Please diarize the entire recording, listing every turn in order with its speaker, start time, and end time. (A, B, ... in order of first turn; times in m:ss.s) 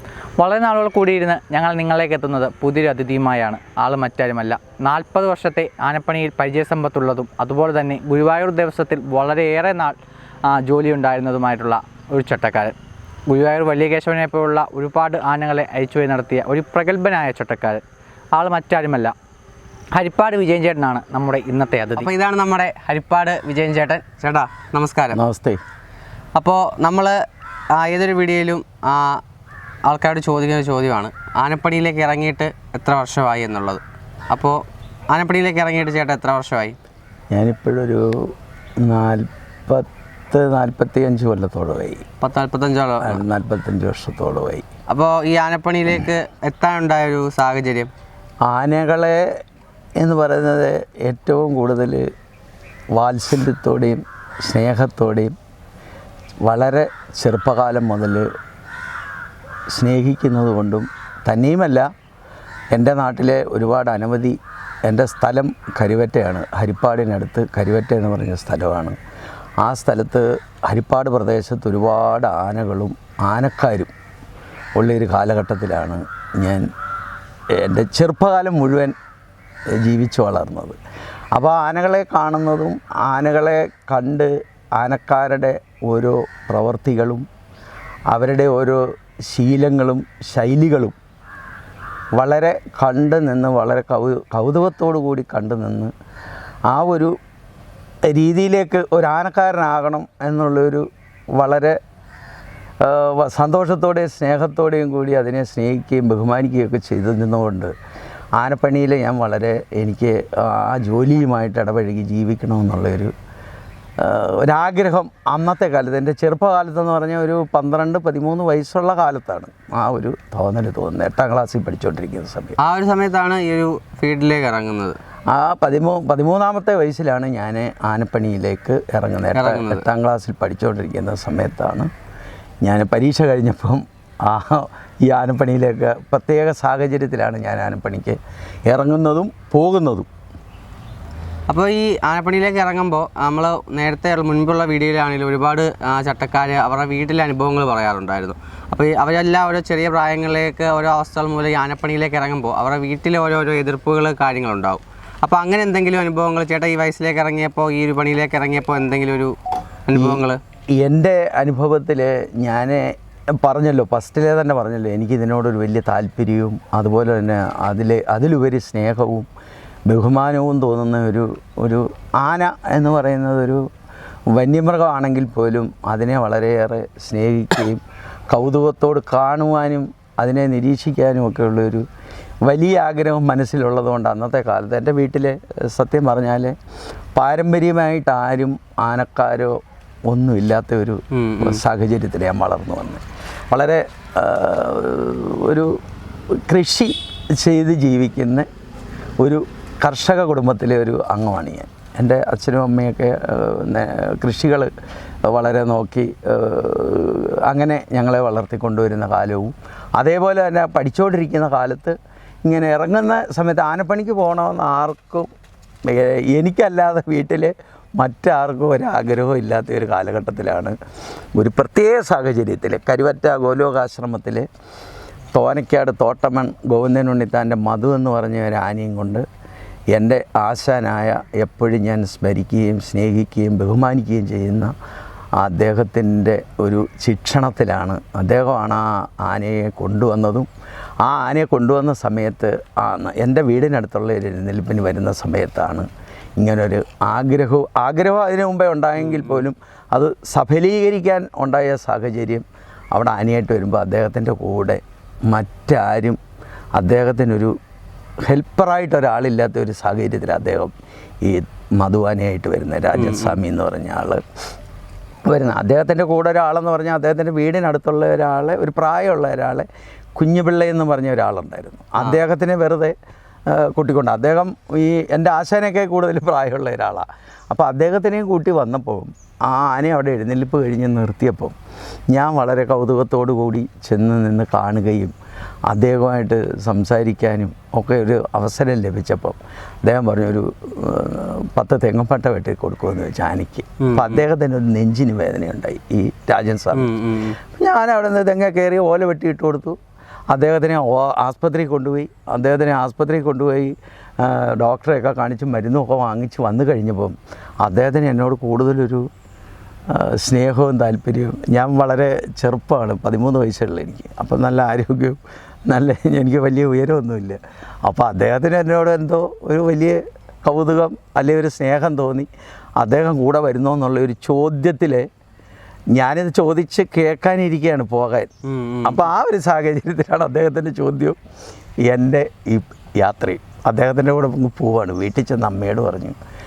0:00.4-0:12.7 A
0:13.3-0:17.8 A
0:18.4-0:19.1 A
0:19.9-0:22.1 A
0:21.9-0:25.2 B
0:25.1-0:25.6 C
0:26.4-0:27.1 B
0:27.8-0:29.2 B
0:29.9-0:34.6 B
0:35.1-0:36.8 B
0:37.3-0:38.0 C
0:38.8-0:42.0 C
0:42.2-0:43.2 B
0:43.0-0:44.6 C
0:44.9-0:47.9 B
0:48.4-0:49.2 C
0:50.0-0:52.0 C
0:53.0-0:55.3 C
0:56.4-0:58.2 C
0:59.7-1:01.8 C
1:02.7-1:09.0 C
1:09.6-1:13.9 C
1:14.8-1:16.7 C
1:17.5-1:18.9 C
1:19.8-1:20.8 C
1:21.3-1:27.2 C
1:28.1-1:31.0 C
1:32.2-1:35.9 C
1:36.7-1:37.1 C
1:38.1-1:40.8 C
1:41.4-1:41.8 C
1:42.8-1:47.7 C
1:48.4-1:53.1 C
1:54.0-2:02.6 C
2:02.6-2:05.0 B
2:05.3-2:11.9 C
2:09.3-2:09.8 B
2:12.6-2:20.1 C
2:21.5-2:39.3 B
2:39.9-2:40.4 B
2:39.9-2:40.2 C
2:40.8-2:42.9 C
2:43.4-2:49.3 C
2:49.9-2:53.6 C
2:54.3-3:01.8 C
3:02.4-3:06.5 C
3:07.2-3:15.8 C
3:11.1-3:11.6 B
3:16.4-3:18.5 C
3:19.2-3:24.7 C
3:25.3-3:35.3 C
3:35.8-3:40.7 C
3:41.4-3:44.4 C
3:45.3-3:49.2 C
3:49.9-3:54.7 C
3:55.4-4:00.5 C
4:01.0-4:05.9 C
4:06.4-4:16.2 C
4:09.0-4:09.4 B
4:16.8-4:17.5 C
4:18.3-4:20.7 C
4:21.2-4:24.2 C
4:22.9-4:23.4 B
4:25.3-4:32.9 C
4:32.0-4:32.2 B
4:33.5-4:41.5 C
4:42.1-4:45.1 C
4:45.7-4:56.9 C
4:53.8-4:54.2 B
4:56.7-4:57.4 B
4:57.5-4:59.8 C
5:00.3-5:09.0 C
5:09.9-5:25.1 C
5:25.9-5:28.3 C
5:28.4-5:29.1 B
5:28.8-5:31.2 C
5:31.9-5:36.2 C